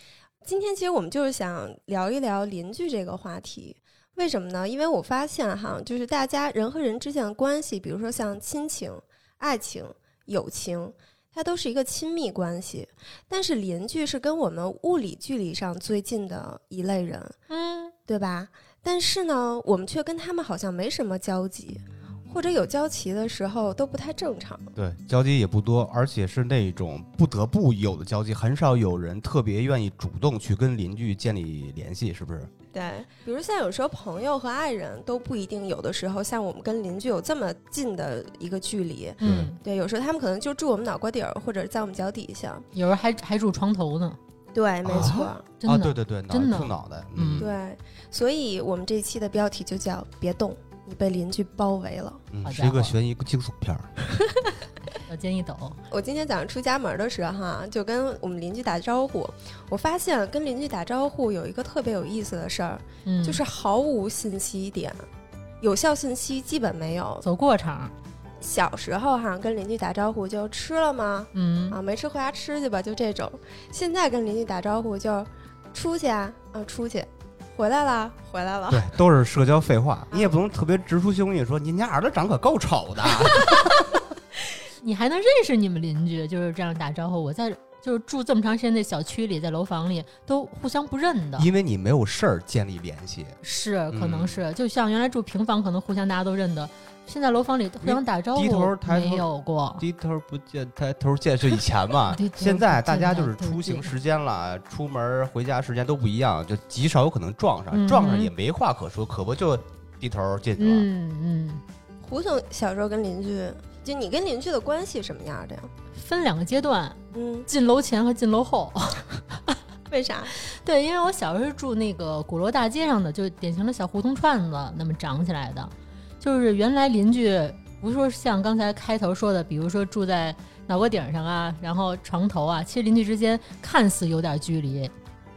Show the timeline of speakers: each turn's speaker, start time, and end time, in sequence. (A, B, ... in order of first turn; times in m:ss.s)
0:00.4-0:17.4 A
0:17.5-0:17.9 B
0:18.1-0:24.7 A
0:24.8-0:32.5 C
0:32.7-0:42.7 A
0:39.2-0:39.6 B
0:39.2-0:39.5 C
0:42.7-0:44.2 B
0:44.5-0:45.4 A
0:44.8-0:47.5 C
0:45.6-0:47.5 B
0:47.4-0:52.2 A
0:52.3-0:53.9 C
0:52.4-0:53.0 B
0:54.9-0:55.8 B
0:55.9-1:05.0 A
1:03.0-1:03.4 B
1:05.6-1:07.2 A
1:07.2-1:07.9 B
1:08.4-1:18.9 A
1:11.3-1:11.8 B
1:18.7-1:24.0 C
1:24.8-1:31.5 B
1:31.4-1:33.4 C
1:33.4-1:39.8 B
1:33.9-1:34.4 C
1:37.8-1:50.9 C
1:42.1-1:43.9 B
1:47.7-1:48.3 B
1:50.6-1:51.6 B
1:52.0-1:55.7 A
1:55.9-1:59.6 B
1:57.1-1:57.5 A
1:59.9-2:00.3 A
2:00.4-2:14.9 B